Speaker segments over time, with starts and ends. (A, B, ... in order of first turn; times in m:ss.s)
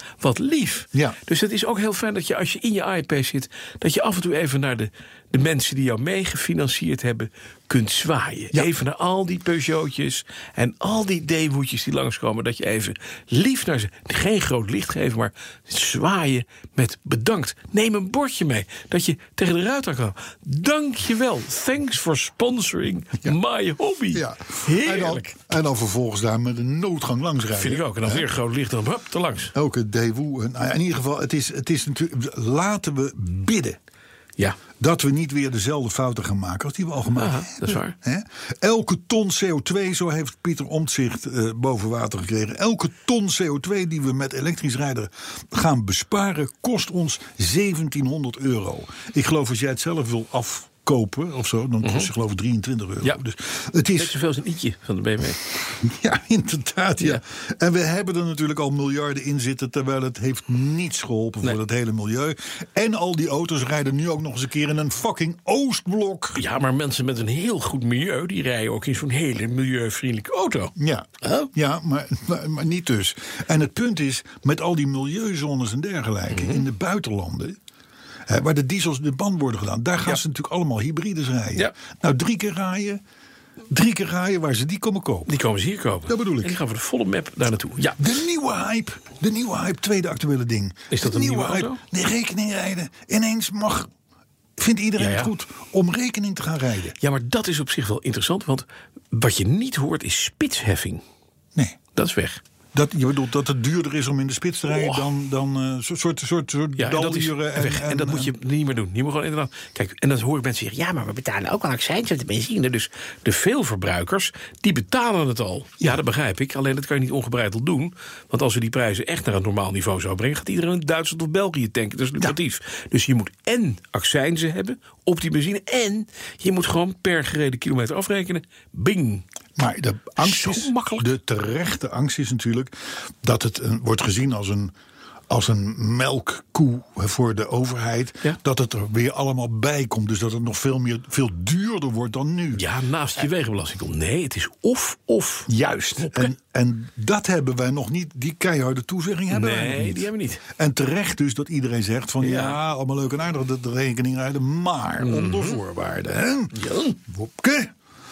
0:00.2-0:25.3 A
0:24.1-0:28.2 B
0:27.5-0:29.5 A
0:29.5-0:33.8 B
0:34.8-0:54.2 B
0:37.1-0:37.9 A
0:51.8-0:52.1 A
0:53.9-0:55.4 A
0:55.8-1:06.4 B
1:06.3-1:11.5 A
1:10.8-1:17.6 B
1:16.3-1:16.7 A
1:18.3-1:23.0 B
1:23.7-1:25.3 B
1:25.3-1:28.0 A
1:26.1-1:26.6 B
1:28.0-1:33.9 B
1:30.9-1:31.8 A
1:34.6-1:36.9 B
1:35.0-1:35.3 A
1:37.0-1:41.0 A
1:41.9-1:42.4 A
1:42.7-1:48.3 B
1:44.7-1:45.0 A
1:46.8-2:09.2 A
2:09.6-2:14.7 B
2:10.2-2:11.1 A
2:15.3-2:22.6 B
2:22.5-2:26.3 A
2:25.5-2:37.7 B
2:29.3-2:30.4 A
2:32.2-2:32.6 A
2:35.0-2:35.6 A
2:36.5-2:37.0 A